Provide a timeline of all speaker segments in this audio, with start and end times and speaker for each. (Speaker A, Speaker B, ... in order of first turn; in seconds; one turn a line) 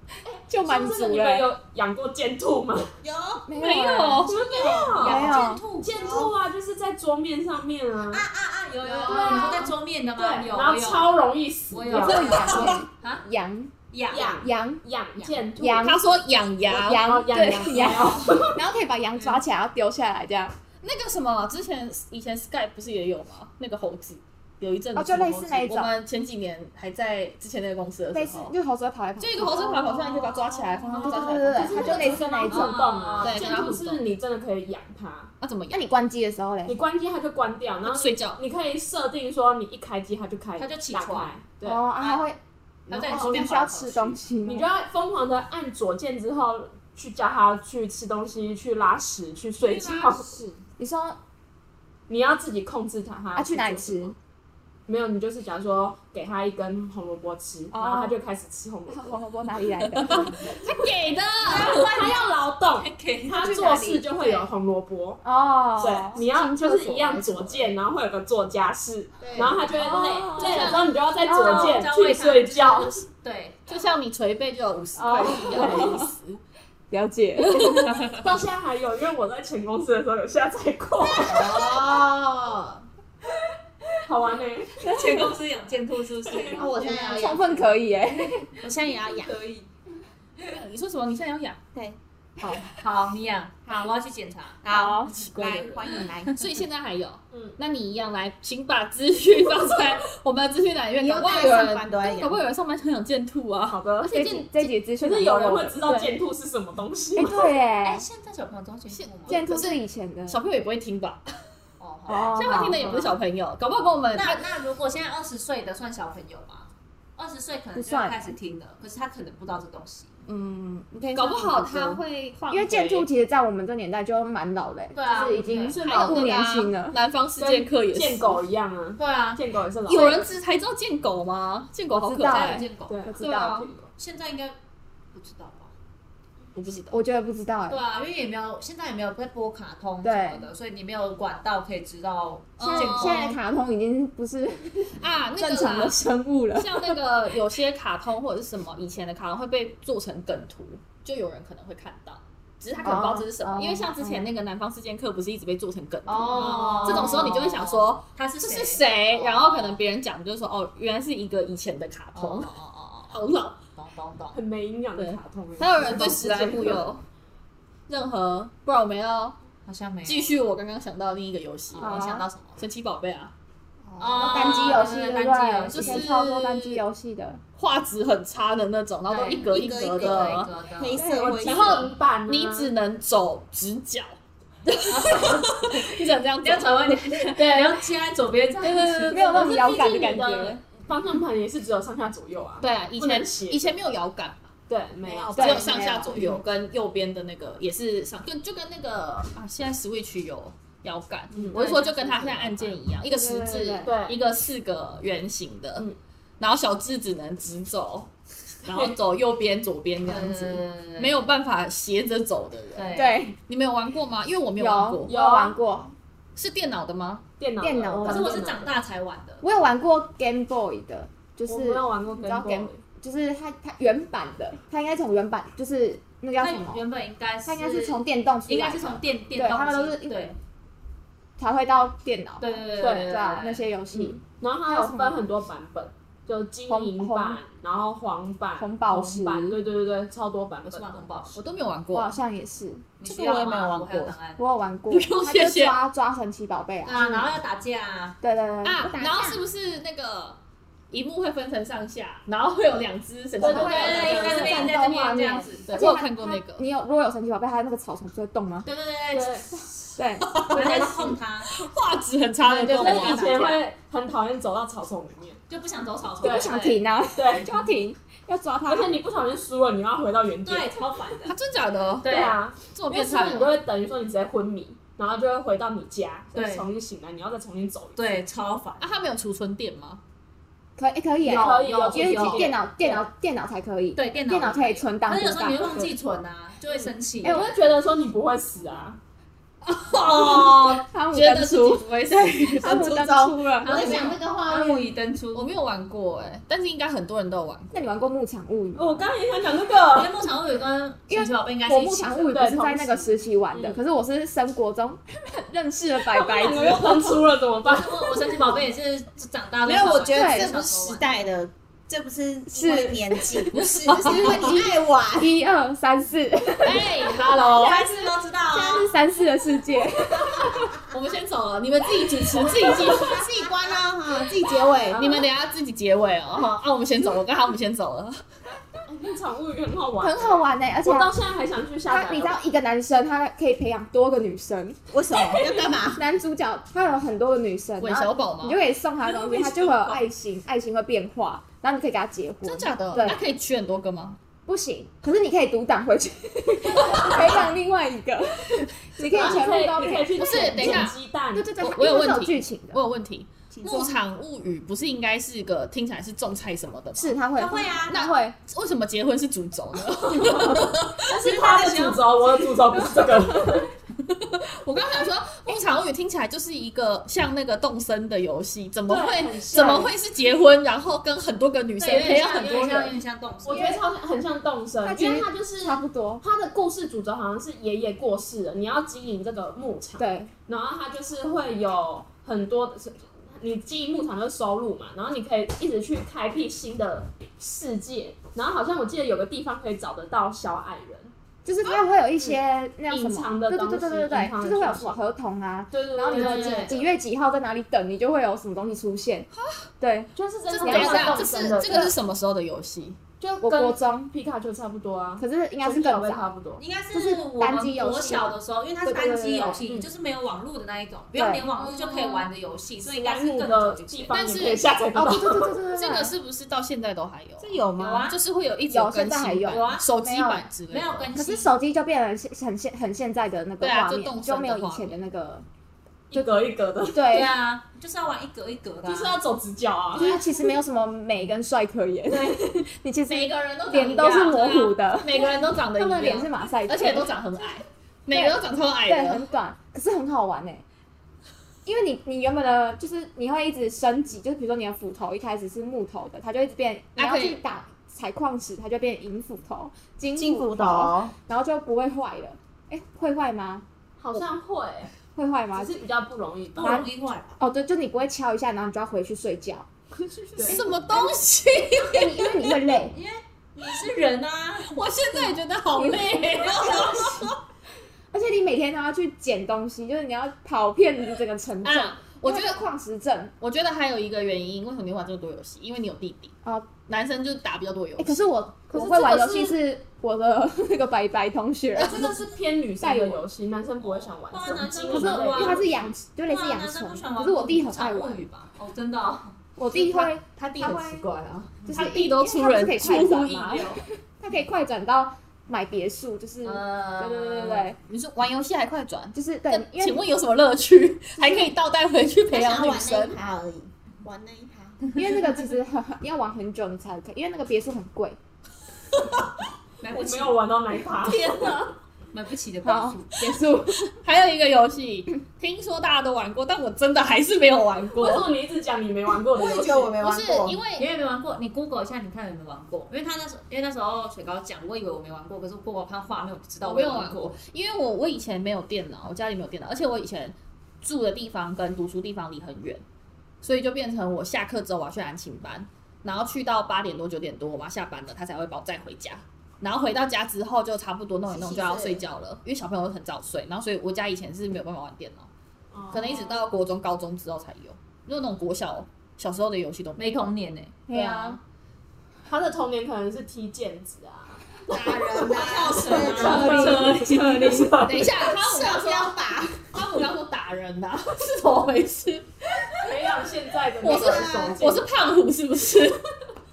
Speaker A: 0.2-2.9
Speaker B: 0.5-1.5
Speaker C: 3.0-3.5
Speaker B: 3.5-4.3
Speaker D: 3.5-4.4
Speaker A: 4.2-8.2
Speaker E: 4.4-6.2
Speaker C: 4.5-5.0
Speaker B: 5.0-5.6
Speaker C: 6.0-6.3
Speaker C: 8.1-9.7
Speaker E: 8.4-11.1
Speaker B: 9.1-9.7
Speaker A: 10.2-12.5
Speaker E: 11.7-13.2
Speaker B: 11.9-13.7
Speaker E: 13.9-14.4
Speaker A: 14.1-15.9
Speaker B: 14.4-14.8
Speaker B: 15.6-16.0
Speaker D: 15.8-17.1
Speaker B: 16.7-20.6
Speaker A: 16.7-18.6
Speaker D: 20.8-28.6
Speaker B: 24.9-25.9
Speaker B: 28.1-33.0
Speaker D: 29.2-32.2
Speaker A: 31.0-35.3
Speaker E: 31.9-33.5
Speaker D: 33.2-34.0
Speaker D: 35.4-35.9
Speaker B: 35.7-36.8
Speaker A: 36.7-41.8
Speaker D: 37.9-38.4
Speaker E: 40.6-41.3
Speaker B: 41.6-42.4
Speaker E: 42.0-42.3
Speaker E: 42.9-44.2
Speaker B: 42.9-44.7
Speaker A: 44.5-50.4
Speaker D: 49.6-50.5
Speaker B: 50.8-51.2
Speaker A: 52.1-54.1
Speaker B: 53.4-54.1
Speaker A: 54.9-59.2
Speaker B: 57.7-58.2
Speaker B: 58.9-60.5
Speaker D: 59.8-62.0
Speaker A: 60.1-60.5
Speaker E: 61.4-63.6
Speaker A: 61.5-65.2
Speaker B: 63.4-64.5
Speaker B: 65.2-67.3
Speaker A: 65.8-73.0
Speaker C: 69.2-69.6
Speaker B: 69.7-71.8
Speaker D: 70.3-70.8
Speaker E: 70.4-73.7
Speaker D: 73.7-76.4
Speaker B: 75.0-76.1
Speaker A: 75.1-76.0
Speaker B: 76.9-77.9
Speaker D: 77.4-78.3
Speaker A: 78.1-81.5
Speaker E: 81.3-82.1
Speaker C: 81.4-82.2
Speaker A: 84.0-85.0
Speaker B: 84.8-85.3
Speaker E: 84.8-87.5
Speaker A: 86.3-86.5
Speaker C: 86.5-87.5
Speaker B: 86.8-88.5
Speaker E: 88.6-89.7
Speaker C: 88.7-89.3
Speaker D: 90.5-91.6
Speaker E: 92.6-94.9
Speaker B: 94.7-95.2
Speaker C: 95.1-96.5
Speaker D: 95.1-104.7
Speaker A: 97.3-97.6
Speaker C: 101.0-102.4
Speaker B: 101.3-101.7
Speaker A: 103.7-104.2
Speaker B: 104.1-106.2
Speaker A: 105.0-107.5
Speaker B: 107.2-108.0
Speaker E: 107.8-109.4
Speaker D: 108.9-111.4
Speaker B: 109.3-110.4
Speaker E: 111.8-113.0
Speaker B: 112.1-113.1
Speaker D: 112.3-114.5
Speaker E: 114.1-120.2
Speaker B: 117.8-118.3
Speaker D: 120.3-123.1
Speaker C: 121.1-122.0
Speaker B: 122.5-127.0
Speaker E: 124.9-125.8
Speaker A: 125.7-126.4
Speaker D: 125.7-128.4
Speaker A: 127.4-130.2
Speaker E: 129.0-129.4
Speaker D: 129.9-132.7
Speaker B: 131.9-133.7
Speaker E: 132.2-134.6
Speaker A: 132.9-133.8
Speaker D: 133.2-133.7
Speaker E: 135.1-135.7
Speaker D: 136.6-137.0
Speaker B: 136.9-137.8
Speaker E: 137.7-143.4
Speaker B: 140.0-140.5
Speaker D: 142.6-143.4
Speaker B: 142.6-147.0
Speaker D: 145.0-162.5
Speaker B: 152.8-154.3
Speaker E: 156.1-159.8
Speaker B: 156.8-157.3
Speaker E: 162.1-163.2
Speaker D: 163.1-163.6
Speaker E: 163.8-164.4
Speaker A: 164.3-166.8
Speaker D: 165.0-167.0
Speaker D: 167.9-169.4
Speaker E: 169.7-170.3
Speaker D: 170.0-173.3
Speaker E: 171.7-172.6
Speaker B: 171.8-172.2
Speaker E: 174.0-176.1
Speaker B: 174.2-177.4
Speaker D: 175.7-176.8
Speaker D: 177.6-180.5
Speaker E: 179.1-181.0
Speaker C: 179.3-181.9
Speaker B: 181.0-181.4
Speaker A: 181.0-182.7
Speaker D: 181.4-187.9
Speaker E: 184.9-185.8
Speaker E: 186.4-189.5
Speaker D: 188.6-189.5
Speaker A: 188.9-193.7
Speaker B: 189.1-190.6
Speaker D: 192.6-194.5
Speaker A: 194.7-195.8
Speaker D: 195.1-205.9
Speaker B: 195.4-196.4
Speaker A: 201.3-201.7
Speaker E: 201.5-202.8
Speaker B: 203.0-204.0
Speaker A: 203.8-204.2
Speaker D: 206.4-208.1
Speaker D: 208.6-215.2
Speaker E: 210.1-211.2
Speaker E: 212.8-213.2
Speaker B: 212.9-213.4
Speaker B: 214.6-215.9
Speaker A: 215.1-215.6
Speaker D: 216.4-217.2
Speaker A: 217.4-218.7
Speaker B: 217.6-218.6
Speaker E: 218.1-219.4
Speaker B: 219.4-226.8
Speaker A: 221.4-222.8
Speaker E: 226.4-230.4
Speaker B: 227.5-230.2
Speaker B: 231.4-235.2
Speaker E: 232.4-233.7
Speaker A: 232.8-233.2
Speaker A: 233.9-241.3
Speaker B: 236.7-237.4
Speaker B: 238.6-239.6
Speaker E: 240.7-241.4
Speaker D: 241.3-242.2
Speaker B: 241.9-242.9
Speaker E: 243.0-244.4
Speaker C: 243.0-244.2
Speaker B: 244.4-247.3
Speaker D: 244.9-245.8
Speaker E: 246.8-248.2
Speaker B: 248.2-249.2
Speaker D: 248.6-250.4
Speaker C: 248.8-249.4
Speaker D: 250.9-254.8
Speaker A: 253.4-254.8
Speaker B: 253.4-258.7
Speaker E: 253.4-255.7
Speaker D: 255.6-256.6
Speaker E: 258.6-259.6
Speaker A: 259.1-259.5
Speaker B: 259.9-261.1
Speaker D: 260.2-263.6
Speaker E: 260.5-261.7
Speaker A: 262.5-265.4
Speaker B: 262.5-263.1
Speaker E: 262.7-263.6
Speaker E: 265.5-266.8
Speaker A: 266.2-266.6
Speaker B: 266.2-268.9
Speaker A: 267.1-267.5
Speaker A: 268.7-270.8
Speaker E: 270.4-271.3
Speaker D: 271.2-273.6
Speaker E: 272.0-272.4
Speaker A: 272.1-278.2
Speaker E: 276.4-276.7
Speaker E: 278.0-278.9
Speaker D: 278.8-280.0
Speaker B: 280.8-285.8
Speaker E: 281.2-282.6
Speaker A: 281.2-283.0
Speaker E: 283.9-287.5
Speaker A: 286.7-289.0
Speaker B: 287.2-287.5
Speaker D: 289.6-293.1
Speaker E: 289.9-290.8
Speaker B: 290.9-294.2
Speaker C: 292.6-294.8
Speaker E: 293.6-295.5
Speaker D: 295.3-298.1
Speaker B: 297.7-299.1
Speaker A: 298.8-300.2
Speaker E: 299.8-302.3
Speaker B: 301.1-307.2
Speaker A: 302.3-303.8
Speaker A: 306.1-308.3
Speaker E: 307.6-311.1
Speaker C: 309.6-315.4
Speaker B: 310.1-310.5
Speaker B: 312.5-317.2
Speaker D: 313.5-314.6
Speaker D: 316.6-318.0
Speaker E: 317.3-318.9
Speaker B: 318.5-320.8
Speaker D: 320.9-323.3
Speaker C: 322.4-325.0
Speaker A: 324.9-325.2
Speaker D: 324.9-328.2
Speaker A: 328.9-332.4
Speaker B: 330.0-331.1
Speaker B: 331.9-334.8
Speaker C: 334.9-336.0
Speaker A: 335.2-335.5
Speaker B: 336.0-343.2
Speaker D: 337.8-338.6
Speaker D: 339.2-340.0
Speaker D: 342.4-344.2
Speaker B: 344.5-352.8
Speaker A: 349.0-351.5
Speaker D: 350.1-351.0
Speaker D: 351.6-357.2
Speaker C: 353.5-354.0
Speaker B: 357.0-358.4
Speaker E: 357.3-358.0
Speaker D: 357.9-361.2
Speaker A: 360.0-363.7
Speaker E: 361.1-362.2
Speaker D: 364.0-372.9
Speaker A: 368.9-369.9
Speaker E: 371.8-373.8
Speaker A: 373.4-391.1
Speaker B: 373.5-373.8
Speaker B: 374.8-376.2
Speaker B: 380.0-380.3
Speaker B: 391.4-399.3
Speaker A: 392.9-395.0
Speaker A: 395.7-396.9
Speaker E: 396.1-396.8
Speaker D: 399.3-399.7
Speaker B: 399.8-400.1
Speaker A: 400.1-401.9
Speaker D: 400.5-403.0
Speaker B: 400.6-401.9
Speaker A: 403.2-406.6
Speaker B: 403.4-404.1
Speaker B: 405.2-406.3
Speaker E: 406.6-414.2
Speaker B: 406.9-409.6
Speaker B: 411.1-412.3
Speaker A: 412.8-415.6
Speaker D: 414.1-421.1
Speaker B: 414.9-416.1
Speaker C: 417.4-418.1
Speaker E: 417.8-418.2
Speaker B: 418.7-420.4
Speaker E: 419.5-419.9
Speaker E: 420.7-421.5
Speaker B: 421.1-425.4
Speaker D: 423.6-425.0
Speaker A: 426.1-427.1
Speaker B: 426.9-427.3
Speaker E: 427.1-429.2
Speaker A: 428.8-430.2
Speaker B: 429.9-437.2
Speaker D: 433.1-439.3
Speaker B: 438.1-440.6
Speaker B: 441.7-453.6
Speaker D: 447.0-447.4
Speaker C: 450.1-451.1
Speaker A: 454.0-454.9
Speaker B: 455.1-455.8
Speaker A: 455.6-456.9
Speaker E: 456.6-457.4
Speaker B: 456.6-456.9
Speaker B: 457.4-459.7
Speaker A: 460.0-460.6
Speaker D: 460.4-462.6
Speaker B: 460.5-461.2
Speaker B: 461.9-462.9
Speaker E: 462.6-465.2
Speaker D: 464.7-467.4
Speaker E: 466.1-467.3
Speaker B: 468.1-473.3
Speaker D: 471.6-472.6
Speaker D: 473.4-478.4
Speaker B: 476.4-476.7
Speaker B: 478.0-482.2
Speaker A: 478.7-479.6
Speaker A: 481.8-485.8
Speaker D: 481.8-482.1
Speaker B: 482.8-483.2
Speaker E: 484.2-489.3
Speaker B: 484.9-488.2
Speaker D: 485.0-485.3
Speaker B: 489.6-491.1
Speaker D: 489.7-493.8
Speaker B: 491.6-497.8
Speaker E: 496.4-497.7
Speaker D: 497.8-503.2
Speaker B: 499.1-500.1
Speaker B: 501.2-501.5
Speaker C: 502.3-504.8
Speaker B: 504.9-508.2
Speaker D: 508.9-509.2
Speaker E: 509.8-510.4
Speaker A: 509.9-511.5
Speaker E: 511.0-513.4
Speaker B: 512.6-514.0
Speaker D: 513.9-518.3
Speaker A: 518.0-519.9
Speaker C: 519.4-520.6
Speaker D: 519.4-520.9
Speaker E: 520.8-527.4
Speaker D: 526.6-532.8
Speaker D: 533.4-545.3
Speaker C: 541.3-542.1
Speaker A: 545.7-546.4
Speaker D: 545.9-550.2
Speaker E: 550.0-550.8
Speaker B: 550.9-551.4
Speaker D: 550.9-551.4
Speaker A: 552.2-558.2
Speaker C: 554.7-556.8
Speaker E: 555.1-557.6
Speaker B: 556.1-556.9
Speaker D: 556.3-557.0
Speaker D: 557.6-563.0
Speaker C: 558.2-559.7
Speaker A: 562.8-564.9
Speaker D: 563.8-566.1
Speaker C: 563.9-564.6